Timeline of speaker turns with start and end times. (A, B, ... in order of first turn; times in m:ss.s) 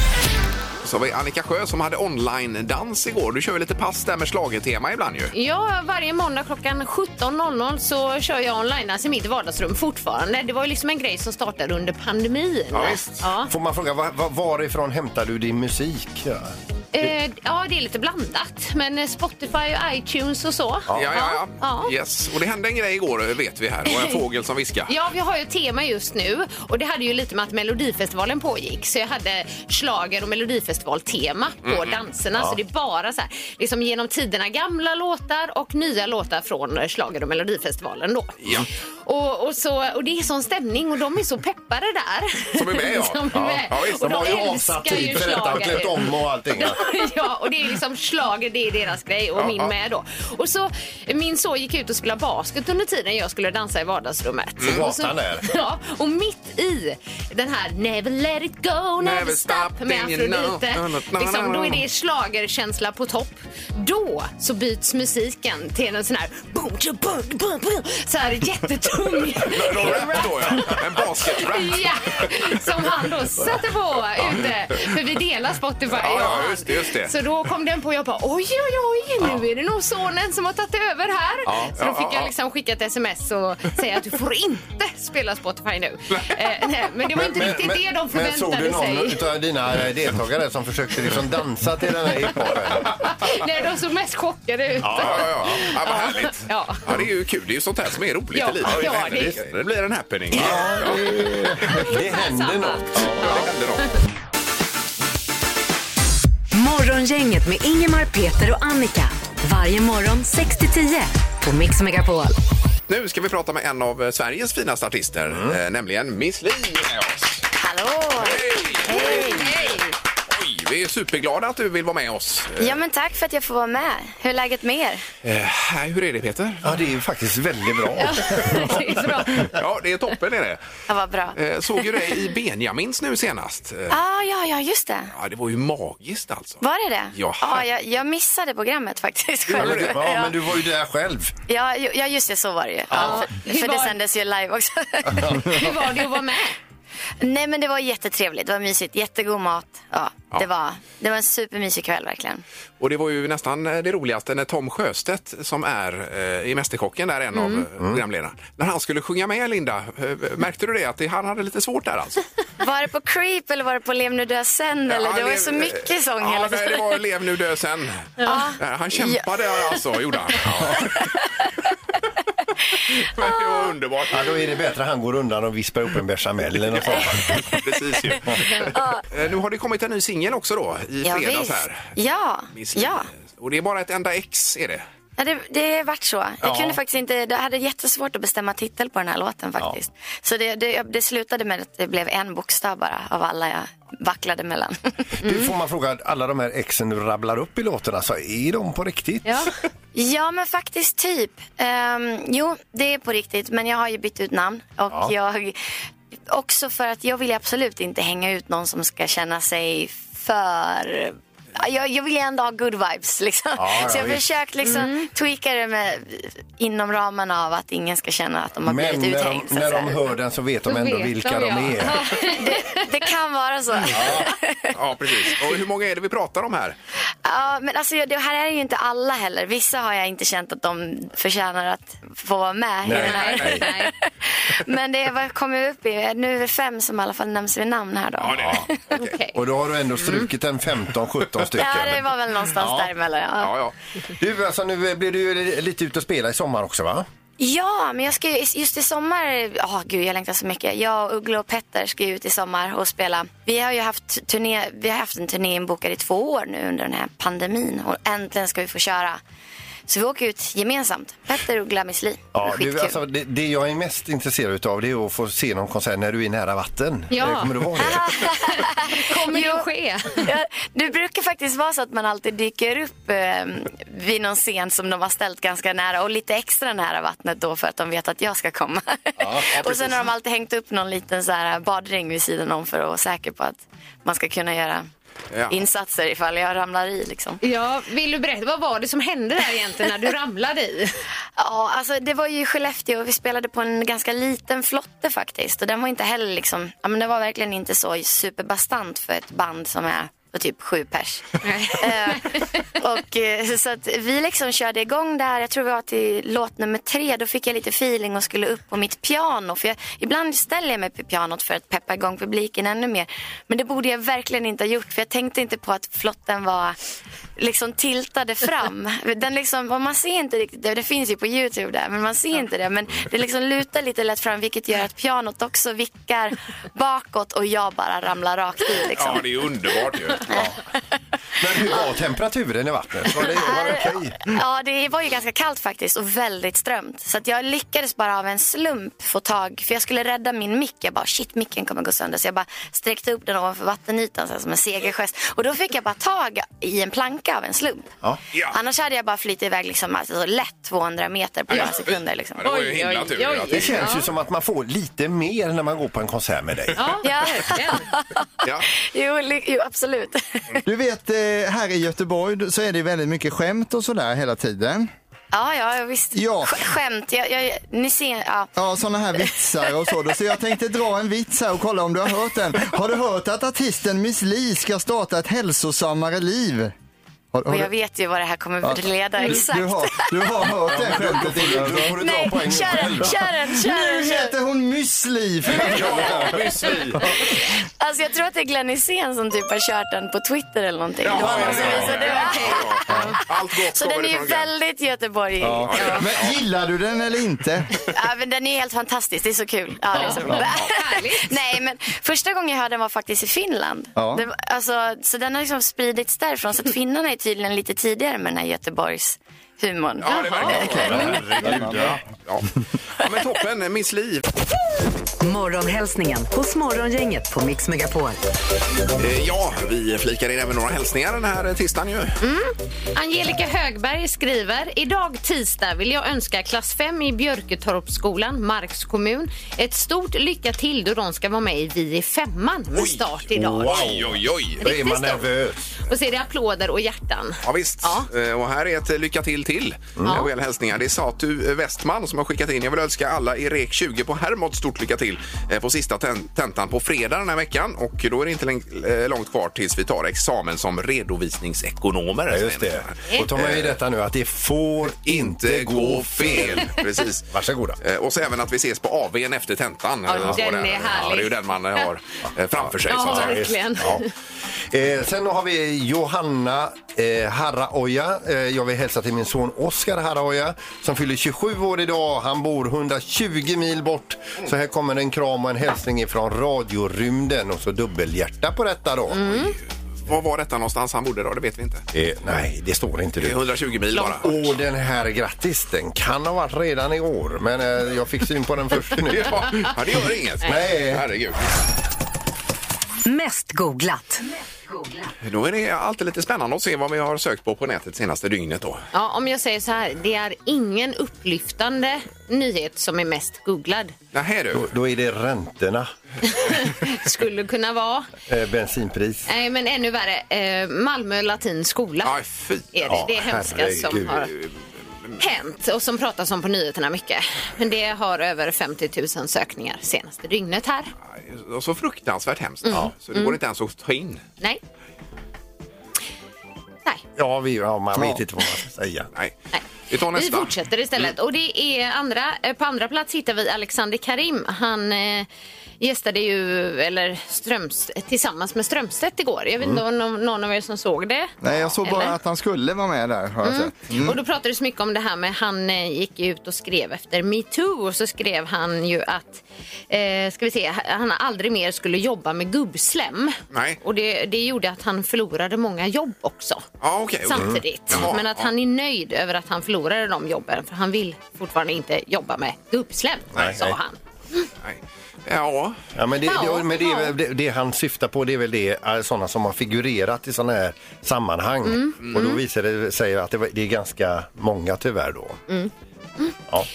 0:00.8-0:05.3 A
0:05.3-0:13.5 B
0:12.7-0:13.2 A
0:12.8-0:16.5 C
0:16.9-0:21.9 B
0:20.9-0:24.9 A
0:24.9-0:38.4 B
0:31.6-0:32.0 A
0:38.4-0:38.7 A
0:39.0-1:29.4 B
0:42.5-0:43.9 A
0:43.3-0:46.8 C
0:49.4-0:49.7 A
0:54.6-0:54.8 A
0:54.6-0:55.6 C
0:59.0-1:01.8 A
1:09.4-1:12.3 A
1:15.9-1:17.1 A
1:21.4-1:22.3 A
1:27.1-1:32.9 C
1:32.8-1:36.8 B
1:34.8-1:35.6 C
1:35.0-1:41.2 A
1:38.3-1:39.4 B
1:38.6-1:39.4 C
1:40.3-1:40.9 C
1:40.3-1:41.9 D
1:41.7-1:43.4 C
1:41.8-1:43.9 B
1:43.0-1:43.9 A
1:46.5-1:52.4 E
1:52.9-1:57.4 A
1:55.3-1:55.6 C
1:57.6-1:59.5 F
1:58.2-1:59.8 A
1:58.9-1:59.9 B
2:00.3-2:02.8 A
2:02.6-2:05.0 F
2:05.2-2:06.7 A
2:06.6-2:09.2 C
2:08.0-2:09.5 B
2:09.4-2:10.6 A
2:10.9-2:11.4 F
2:11.3-2:14.0 A
2:13.9-2:15.1 F
2:15.1-2:17.6 A
2:16.6-2:20.4 F
2:19.5-2:20.0 A
2:19.6-2:21.3 C
2:21.5-2:25.4 F
2:22.9-2:23.2 C
2:22.9-2:24.0 B
2:25.1-2:25.6 C
2:25.4-2:26.6 B
2:27.2-2:32.4 F
2:32.8-2:42.2 A
2:37.3-2:37.6 B
2:42.6-2:46.9 F
2:44.9-2:51.1 A
2:48.2-2:49.8 F
2:50.5-2:51.3 F
2:53.0-2:54.5 A
2:53.2-2:53.6 F
2:54.1-2:57.4 C
2:56.7-3:01.9 A
2:56.9-2:58.0 F
2:58.7-2:59.0 F
3:01.0-3:03.1 F
3:02.5-3:04.8 A
3:05.2-3:15.1 F
3:06.4-3:06.8 C
3:15.2-3:19.5 C
3:15.2-3:15.5 B
3:19.2-3:19.5 B
3:19.9-3:25.7 F
3:26.3-3:40.0 F
3:33.6-3:34.2 C
3:34.6-3:35.0 B
3:38.6-3:42.1 C
3:40.6-3:42.9 B
3:42.2-3:45.4 F
3:43.9-3:44.2 C
3:44.7-3:46.8 A
3:47.2-3:58.8 F
3:52.8-3:53.5 C
3:52.9-3:53.9 B
3:53.1-3:53.6 A
3:58.2-3:59.1 A
3:58.3-3:58.6 C
3:59.0-3:59.4 B
3:59.3-4:02.0 C
4:00.0-4:00.3 B
4:01.5-4:03.6 F
4:02.5-4:02.9 C
4:03.4-4:03.7 A
4:04.2-4:07.1 C
4:07.4-4:19.2 F
4:19.9-4:23.0 F
4:22.3-4:28.1 C
4:27.1-4:30.2 B
4:27.8-4:44.9 F
4:39.5-4:40.1 A
4:45.3-4:45.6 A
4:45.5-4:47.4 F
4:47.4-4:50.9 B
4:51.4-5:16.8 F
5:01.4-5:02.4 B
5:17.4-5:29.2 F
5:28.9-5:30.4 A
5:30.2-5:30.6 F
5:31.4-5:34.2 C
5:31.5-5:31.8 F
5:33.2-5:47.9 F
5:48.3-5:48.6 A
5:48.4-5:52.4 F
5:51.5-5:53.9 A
5:52.4-5:54.1 B
5:53.5-5:56.9 C
5:56.8-5:57.8 B
5:57.0-6:00.6 F
6:00.6-6:04.9 D
6:05.3-6:08.5 F
6:06.1-6:06.7 D
6:08.6-6:16.7 D
6:09.2-6:09.9 F
6:17.3-6:17.7 D
6:17.5-6:20.5 F
6:18.6-6:22.0 D
6:20.6-6:23.3 C
6:21.9-6:24.3 F
6:23.0-6:26.5 D
6:25.5-6:27.1 A
6:25.9-6:26.2 C
6:27.2-6:35.9 F
6:31.0-6:34.5 A
6:31.1-6:32.1 C
6:31.4-6:33.2 B
6:35.4-6:37.8 D
6:35.6-6:36.4 A
6:37.8-6:51.0 F
6:39.9-6:41.3 B
6:40.0-6:40.5 D
6:44.0-6:44.2 D
6:50.0-6:52.5 A
6:50.0-6:50.7 B
6:50.4-6:52.0 D
6:50.8-6:52.0 C
6:53.0-6:54.2 A
6:55.2-6:58.2 E
6:59.0-7:02.2 A
7:02.2-7:14.0 B
7:12.7-7:13.0 A
7:13.3-7:15.8 C
7:13.6-7:14.6 A
7:14.6-7:18.1 B
7:17.4-7:33.7 A
7:20.0-7:20.2 C
7:20.0-7:20.3 B
7:32.3-7:36.7 C
7:35.0-7:43.4 A
7:37.3-7:37.8 C
7:40.0-7:41.9 B
7:42.6-7:44.0 C
7:42.9-7:44.1 B
7:44.6-7:59.3 C
7:59.1-7:59.5 B
7:59.3-8:01.8 A
8:01.9-8:03.4 C
8:03.2-8:04.5 A
8:03.9-8:09.4 C
8:09.0-8:11.5 A
8:10.4-8:11.1 C
8:13.0-8:14.2 E
8:15.2-8:18.8 A
8:18.9-8:23.9 B
8:24.1-8:24.7 A
8:24.5-8:25.9 C
8:26.2-8:28.1 B
8:28.3-8:29.3 C
8:29.2-8:32.1 B
8:32.0-8:33.0 A
8:32.7-8:34.3 B
8:32.9-8:34.3 C
8:34.3-8:35.2 A
8:35.2-8:40.9 B
8:41.1-8:44.2 A
8:42.6-8:43.4 B
8:47.2-8:49.1 C
8:49.5-8:55.3 B
8:49.9-8:50.5 A
8:55.8-9:02.1 B
9:01.4-9:04.2 D
9:03.4-9:16.6 B
9:13.5-9:13.8 A
9:16.8-9:18.5 A
9:17.2-9:24.4 B
9:17.3-9:18.0 C
9:23.3-9:23.8 C
9:24.6-9:25.8 A
9:25.9-9:35.4 C
9:26.2-9:27.1 B
9:31.6-9:32.4 B
9:35.5-9:36.3 B